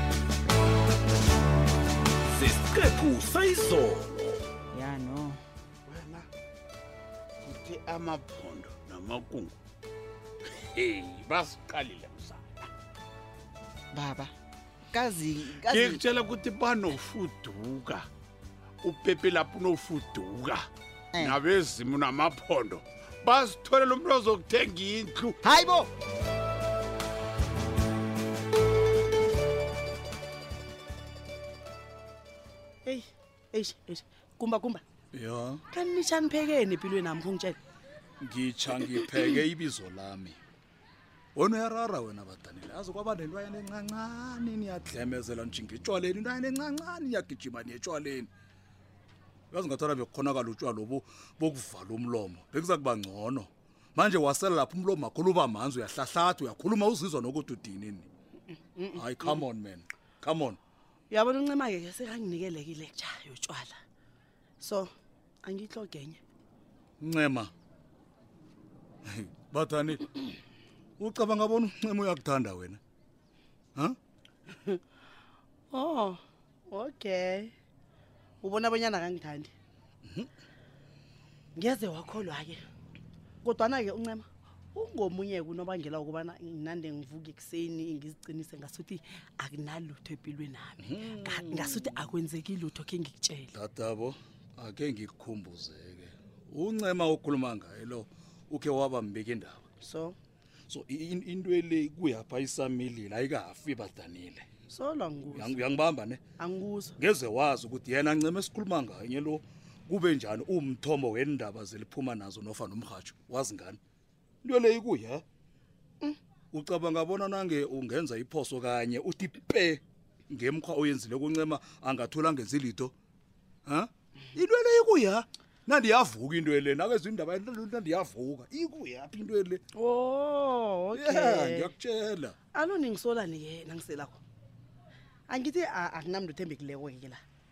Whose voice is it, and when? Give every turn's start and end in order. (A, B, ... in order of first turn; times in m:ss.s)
0:02.4-0:04.4 A
0:04.7-0:05.4 B
0:07.6-0:09.3 C
0:10.8-0:12.4 C
0:13.9-0:14.3 B
0:14.9-0:16.0 B
0:16.1-0:18.0 C
0:19.0-0:20.6 C
0:21.1-0:21.4 B
0:21.5-0:22.8 C
0:23.4-0:25.3 C
0:25.4-0:25.9 B
0:32.8-0:34.8 D
0:35.1-0:35.6 E
0:35.7-0:37.6 D
0:38.2-0:40.4 E
0:38.8-0:39.1 D
0:41.4-0:48.3 E
0:49.5-0:58.1 E
0:58.8-0:59.4 D
0:58.9-1:00.6 E
1:01.1-1:03.8 D
1:04.6-1:04.9 D
1:05.4-1:06.2 D
1:07.0-1:07.5 E
1:09.1-1:10.1 E
1:11.0-1:12.8 E
1:14.5-1:14.8 D
1:15.7-1:17.5 D
1:18.4-1:19.5 D
1:21.6-1:22.6 D
1:23.4-1:33.5 D
1:30.8-1:32.1 E
1:33.5-1:39.6 E
1:39.8-1:40.2 D
1:40.7-1:44.5 E
1:44.7-1:45.6 D
1:45.3-1:46.2 E
1:46.4-1:46.9 D
1:47.0-1:53.8 E
1:54.4-1:55.2 E
1:56.5-2:02.9 E
2:03.7-2:09.6 E
2:09.8-2:11.7 D
2:10.9-2:12.4 E
2:12.6-2:14.2 D
2:15.3-2:17.2 D